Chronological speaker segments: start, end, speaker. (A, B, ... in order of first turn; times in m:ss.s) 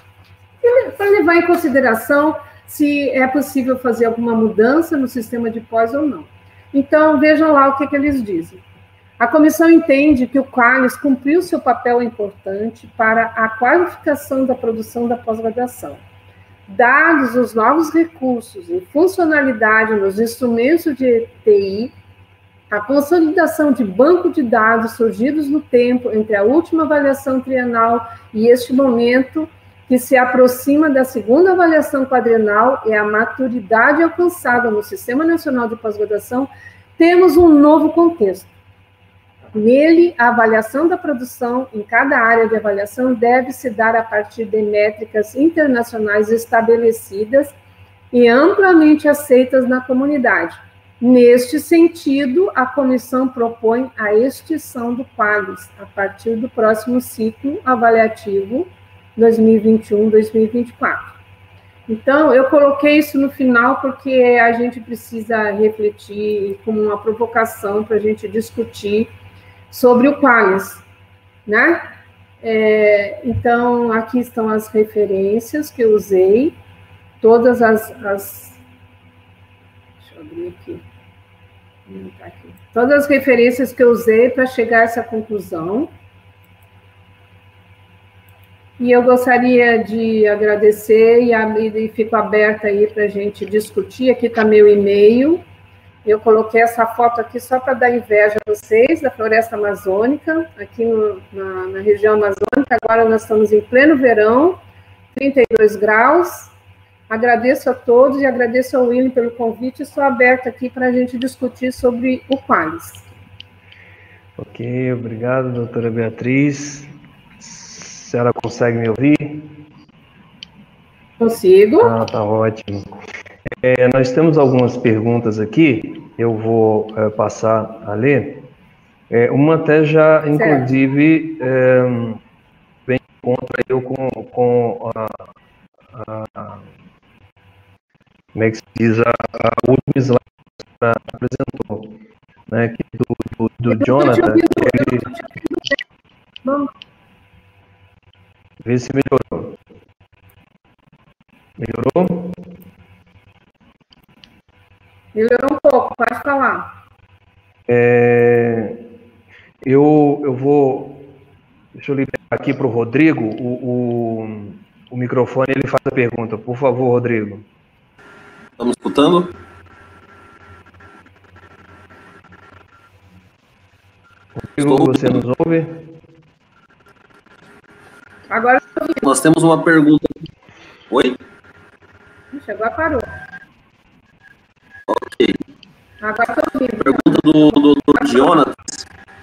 0:00.6-0:08.6 A
0:09.2-0:16.0 A
0:16.7-0:21.9 A
0:22.7-0:38.5 A
0:39.5-0:47.5 A
0:48.1-1:01.1 A
1:01.9-1:09.1 A
1:09.7-1:10.8 A
1:11.4-1:11.9 A
1:12.4-1:16.5 A
1:17.2-1:18.6 A
1:20.0-1:20.8 A
1:21.9-1:25.9 A
1:28.8-1:35.4 A
1:36.0-1:44.6 A
1:45.1-1:46.5 A
1:47.1-1:53.1 A
1:54.4-1:59.6 B
2:01.2-2:02.0 A
2:01.8-2:02.9 B
2:03.6-2:08.5 B
2:09.1-2:12.2 B
2:10.3-2:10.7 A
2:12.8-2:15.3 B
2:15.9-2:16.7 B
2:18.3-2:22.0 B
2:22.5-2:25.1 B
2:23.7-2:25.8 A
2:26.4-2:26.7 A
2:28.6-2:29.6 B
2:31.6-2:32.4 B
2:35.1-2:36.7 A
2:37.7-2:38.8 B
2:39.6-2:41.1 B
2:41.7-2:47.4 B
2:48.6-2:49.3 C
2:54.4-2:55.9 B
2:54.6-2:55.2 C
2:58.3-2:59.1 A
2:59.0-3:00.1 C
3:00.9-3:01.2 C
3:02.3-3:03.1 A
3:04.9-3:05.4 C
3:06.0-3:08.2 A
3:06.8-3:08.8 C